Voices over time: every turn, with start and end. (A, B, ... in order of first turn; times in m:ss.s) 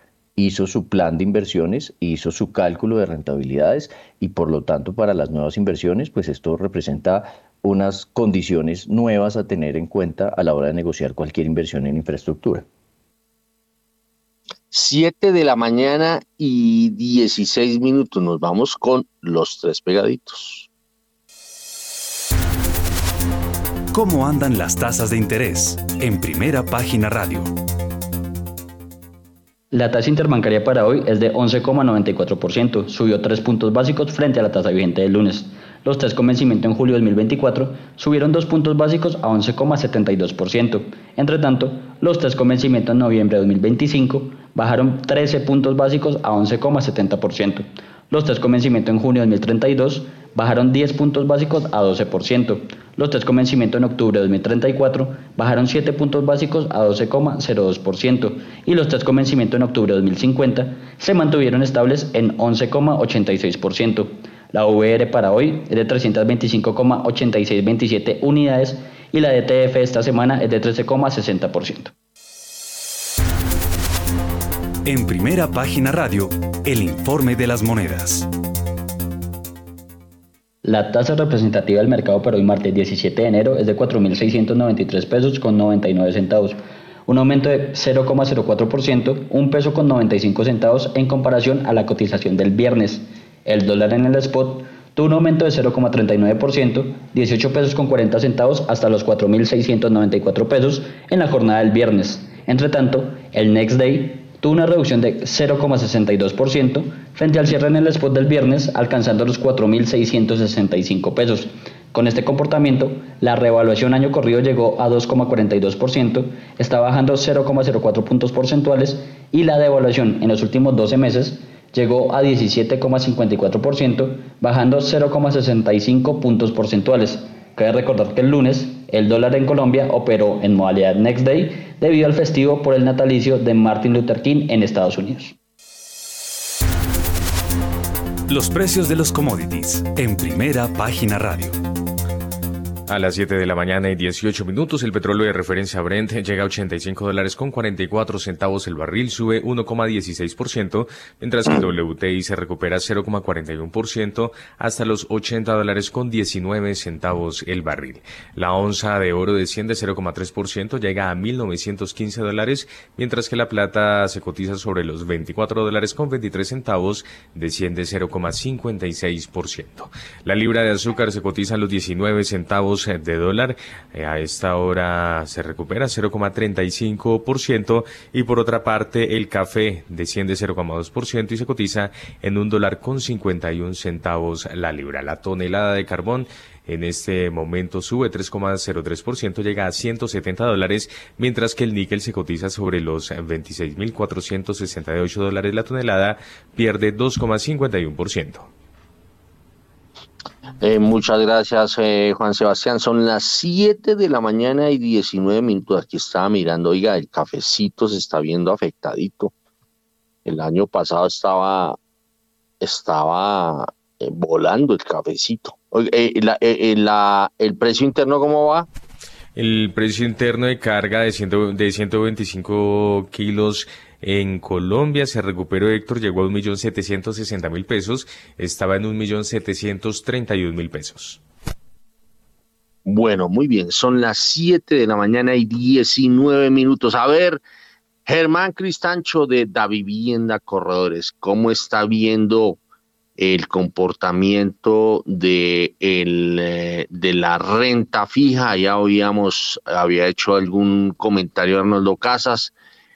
0:00.4-0:12.6 A
0:14.7-0:20.7 B
0:23.9-0:27.5 C
0:29.7-1:11.9 D
1:14.8-1:18.3 C
1:20.6-2:15.4 D
2:18.3-2:21.6 C
2:22.9-3:18.5 E
3:20.6-3:29.3 B
3:30.2-3:31.8 B
3:32.6-3:38.7 B
3:39.4-3:51.2 E
3:52.9-3:57.4 B
3:58.1-4:02.6 B
4:03.2-4:12.5 B